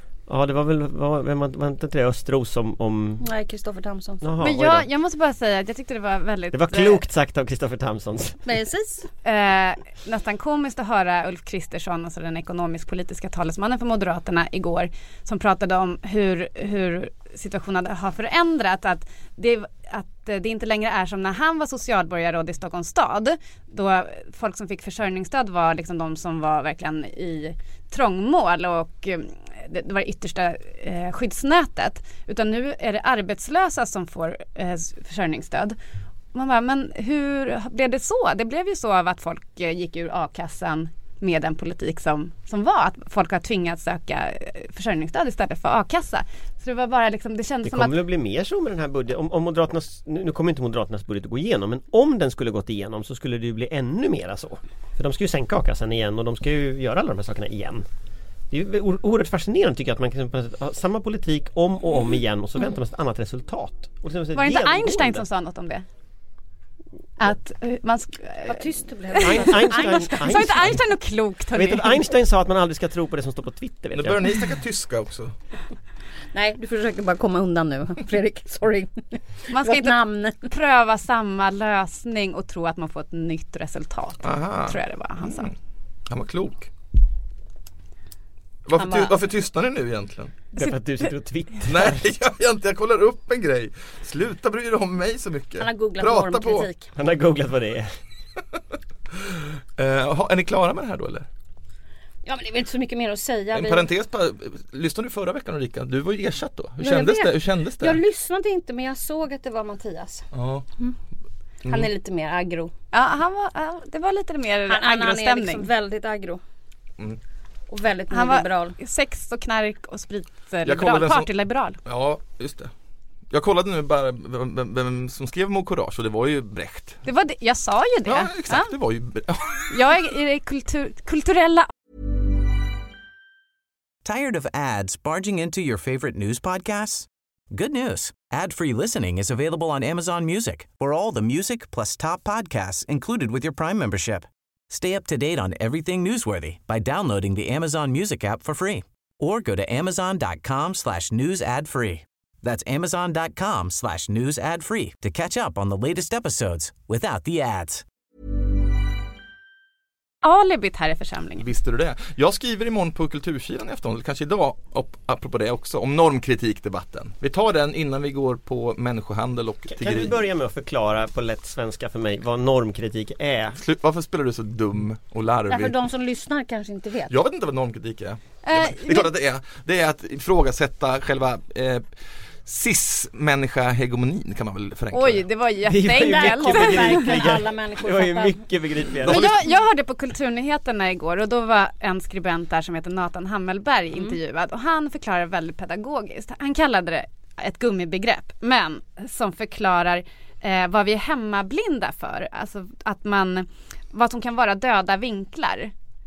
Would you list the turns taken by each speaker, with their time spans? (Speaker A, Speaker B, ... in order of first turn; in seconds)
Speaker A: 0.3-3.2, 4.2-4.9, 6.5-8.4, 47.6-57.8, 58.5-65.2, 69.2-70.8, 71.5-74.3, 90.5-92.1, 96.9-97.9, 169.7-173.6, 185.6-189.3
Speaker B: 3.2-4.3, 8.4-9.1, 68.5-70.5, 76.3-80.5, 88.7-89.2, 95.6-96.9, 102.2-103.9, 106.8-110.3, 111.7-112.7, 114.7-116.4, 117.7-118.7, 175.5-177.1, 185.9-188.4
Speaker C: 4.4-7.0, 9.2-35.8, 36.3-48.0, 64.3-65.8, 67.2-72.0, 79.5-85.5, 112.9-115.7, 118.1-121.8, 127.0-128.7, 129.7-131.7, 160.2-161.5, 178.4-179.1, 184.9-187.2, 189.0-205.7
Speaker D: 73.9-75.3, 84.2-85.5, 86.1-86.7, 88.7-90.4, 91.7-96.7, 99.2-101.3, 103.5-108.0, 110.3-110.6, 120.7-121.3, 121.8-122.7, 123.3-127.0, 128.1-129.7, 161.4-170.2, 173.6-175.7, 177.1-181.8, 182.4-185.3, 189.0-189.5
Speaker E: 134.0-157.8